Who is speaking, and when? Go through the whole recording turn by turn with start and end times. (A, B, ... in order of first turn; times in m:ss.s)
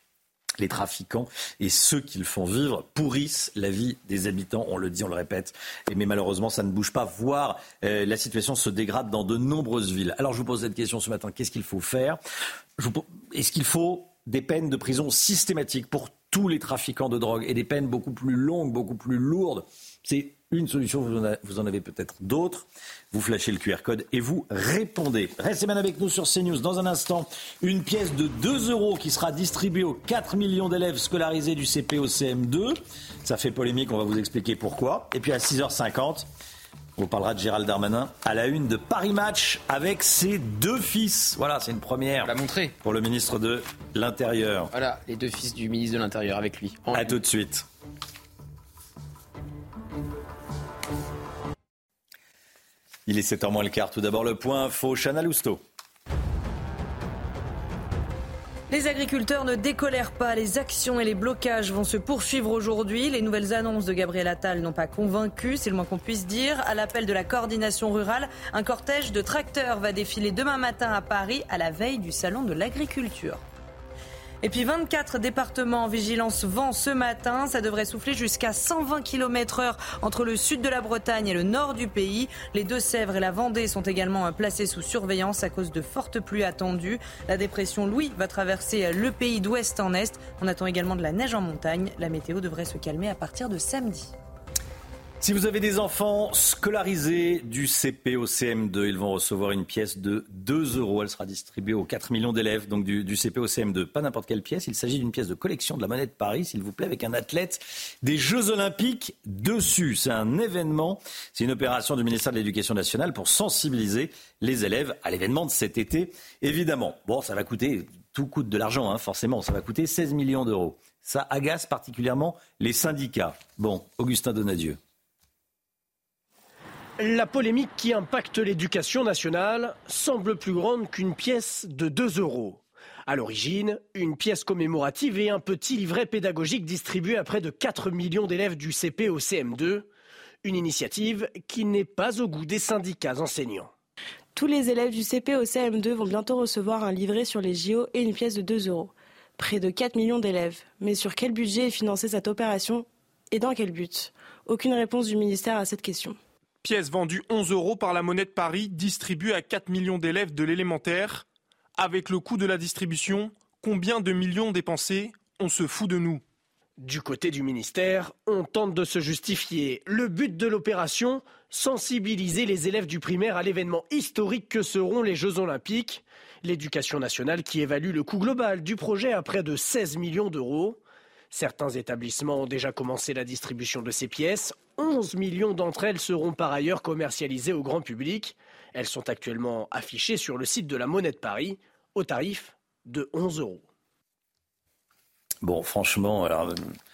0:00.6-0:12.2 A
0:12.8-0:36.3 A
0:37.0-0:44.7 A
0:42.2-0:42.7 B
0:44.7-0:47.1 B
0:46.9-0:47.6 A
0:53.0-0:55.6 A
0:58.7-1:13.4 C
1:14.4-1:34.1 C
1:35.2-2:04.8 A
2:07.0-2:19.9 D
2:20.4-2:23.7 D
2:24.4-2:36.2 E
2:36.6-2:41.2 F
2:41.8-2:46.2 F
2:46.8-3:00.8 D
3:01.3-3:13.6 D
3:15.4-3:16.7 A